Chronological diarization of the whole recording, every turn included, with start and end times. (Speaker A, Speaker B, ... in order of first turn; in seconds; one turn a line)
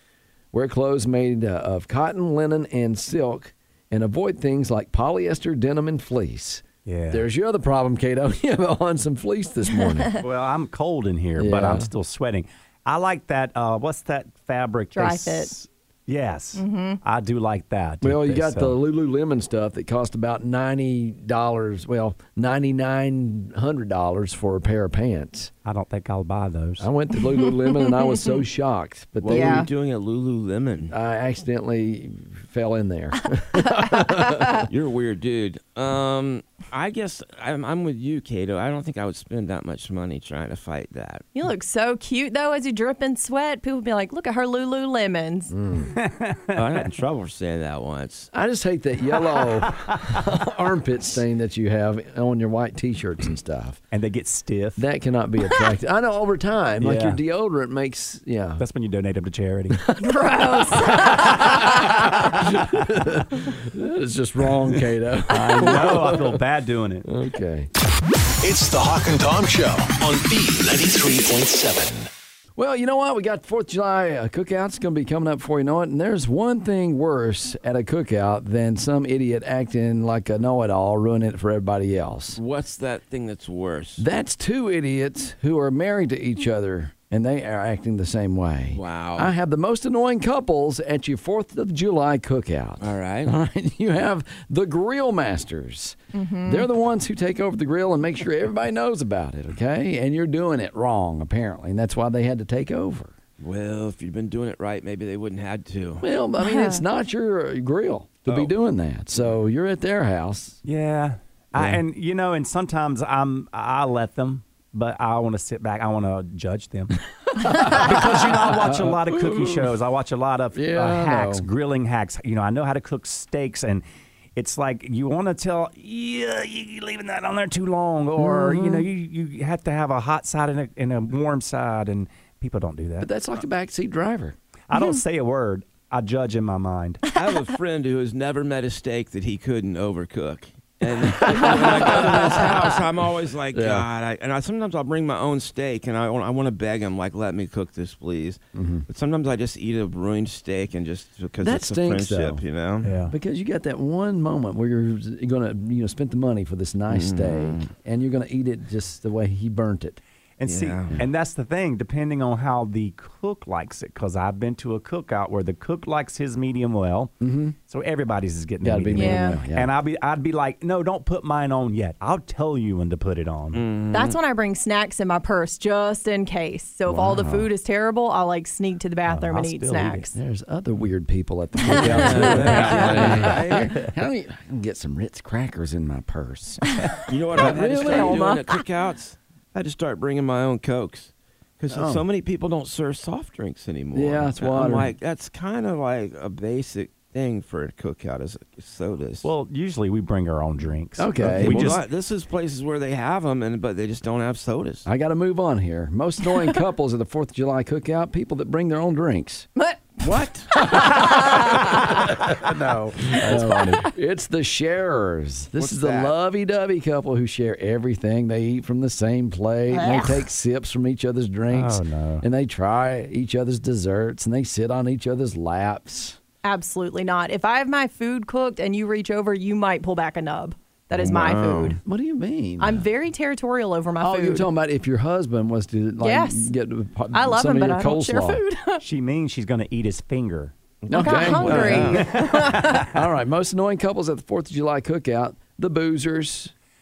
Speaker A: 0.5-10.2
Speaker B: 6.8-7.2
Speaker B: 10.2-18.7
Speaker A: 11.4-11.9
Speaker C: 14.9-15.5
Speaker C: 16.6-17.0
Speaker A: 18.0-25.5
Speaker B: 25.6-26.9
Speaker A: 26.8-29.7
Speaker C: 27.5-28.3
Speaker D: 29.2-30.9
Speaker C: 29.3-29.7
Speaker A: 30.9-34.7
Speaker C: 34.0-34.4
Speaker D: 34.7-41.2
Speaker C: 41.3-45.5
Speaker A: 45.5-45.9
Speaker B: 45.9-46.7
Speaker D: 46.5-48.3
Speaker A: 48.3-53.8
Speaker B: 49.7-50.0
Speaker B: 53.9-54.8
Speaker A: 54.8-58.6
Speaker B: 56.8-57.2
Speaker B: 58.6-59.8
Speaker C: 60.0-61.8
Speaker A: 60.7-66.4
Speaker B: 61.0-62.9
Speaker B: 65.3-67.1
Speaker A: 67.0-67.7
Speaker E: 68.4-72.1
Speaker A: 72.5-82.4
Speaker D: 82.3-84.0
Speaker A: 84.0-103.1
Speaker D: 88.7-89.3
Speaker D: 92.8-93.3
Speaker C: 96.1-96.7
Speaker D: 103.4-106.0
Speaker A: 106.0-110.6
Speaker C: 106.4-106.8
Speaker D: 108.3-108.5
Speaker B: 110.6-123.8
Speaker A: 117.4-119.7
Speaker A: 120.5-121.5
Speaker B: 124.3-133.1
Speaker A: 128.2-128.7
Speaker A: 133.0-134.3
Speaker B: 134.7-137.0
Speaker D: 137.1-152.9
Speaker A: 141.4-142.6
Speaker A: 143.5-143.9
Speaker A: 148.5-148.8
Speaker A: 151.4-152.4
Speaker B: 152.8-153.1
Speaker A: 153.1-160.0
Speaker D: 156.9-157.7
Speaker B: 160.4-167.1
Speaker D: 160.4-160.9
Speaker A: 167.2-167.5
Speaker B: 167.6-173.6
Speaker A: 168.6-169.7
Speaker C: 168.9-169.4
Speaker D: 173.5-174.2
Speaker C: 173.9-180.1
Speaker A: 176.9-177.5
Speaker B: 179.1-180.1
Speaker A: 180.1-186.7
Speaker D: 181.7-183.7
Speaker B: 181.8-183.4
Speaker D: 187.1-199.2
Speaker A: 187.3-188.4
Speaker C: 187.8-188.4
Speaker A: 191.7-192.0
Speaker A: 193.9-194.9
Speaker B: 199.2-201.8
Speaker A: 201.0-201.8
Speaker D: 201.2-204.9
Speaker A: 204.8-209.5
Speaker C: 209.6-209.9
Speaker A: 210.0-226.2
Speaker C: 210.5-212.0
Speaker B: 213.2-213.8
Speaker C: 213.5-213.8
Speaker D: 215.6-216.1
Speaker C: 219.7-220.2
Speaker B: 221.5-222.2
Speaker C: 226.4-231.8
Speaker D: 231.0-231.8
Speaker A: 231.8-232.8
Speaker C: 232.6-234.5
Speaker A: 234.0-238.4
Speaker C: 236.0-236.5
Speaker C: 237.1-238.8
Speaker B: 238.8-240.5
Speaker D: 240.8-242.1
Speaker A: 240.9-242.2
Speaker C: 240.9-242.8
Speaker B: 241.5-242.9
Speaker A: 242.8-246.5